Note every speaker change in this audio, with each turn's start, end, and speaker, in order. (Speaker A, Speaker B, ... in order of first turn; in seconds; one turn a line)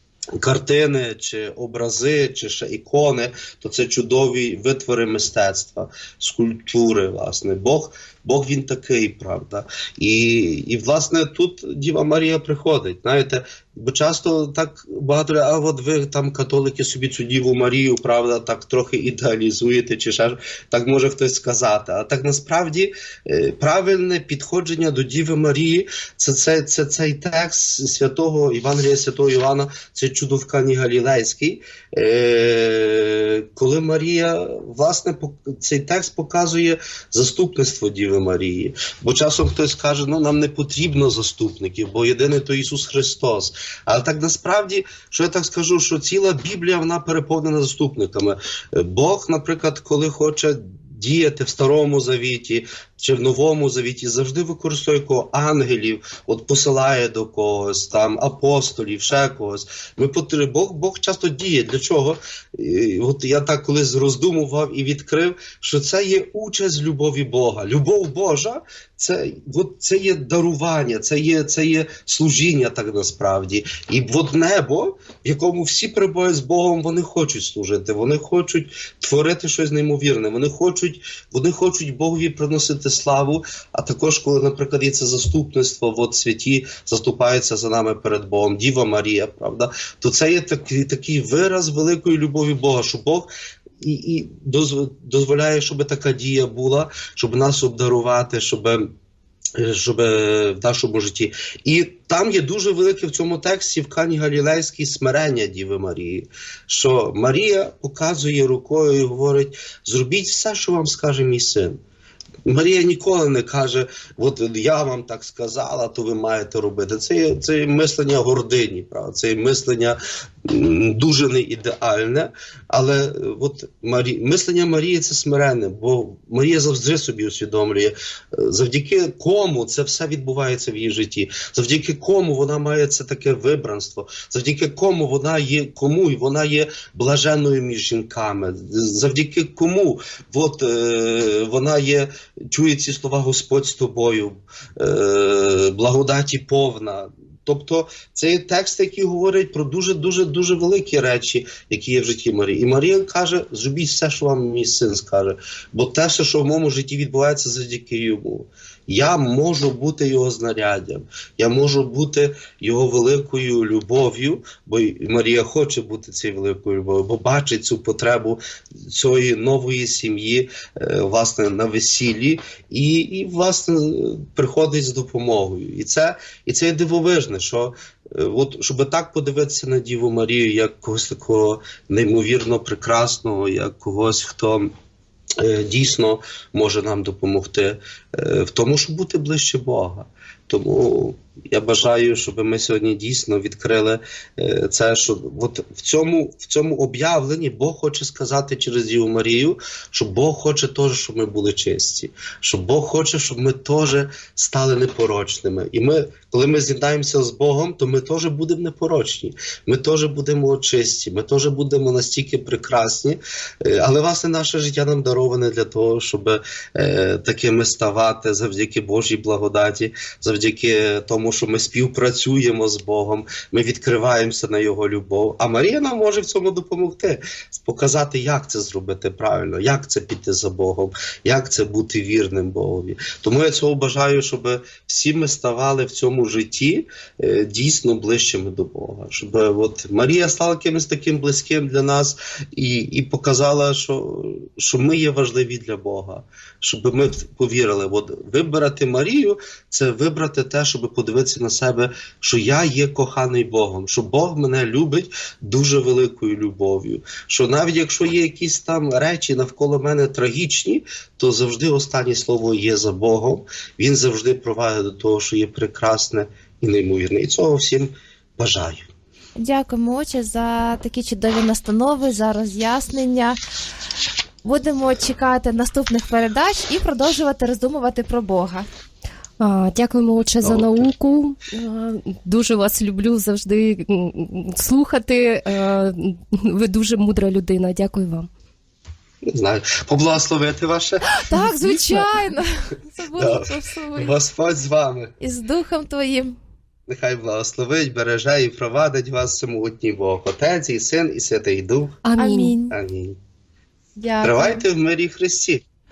Speaker A: 0.4-98.9
Speaker A: 99.6-111.8
Speaker A: 112.4-184.7
Speaker A: 185.4-268.9
Speaker B: 269.4-273.4
Speaker B: 274.4-278.7
Speaker C: 279.4-288.3
Speaker A: 280.4-280.9
Speaker A: 289.2-291.5
Speaker B: 291.1-294.1
Speaker A: 293.1-295.1
Speaker B: 295.2-296.4
Speaker A: 296.9-302.0
Speaker C: 302.0-302.6
Speaker B: 302.2-302.7
Speaker A: 302.7-303.2
Speaker B: 304.0-304.6
Speaker A: 304.2-305.6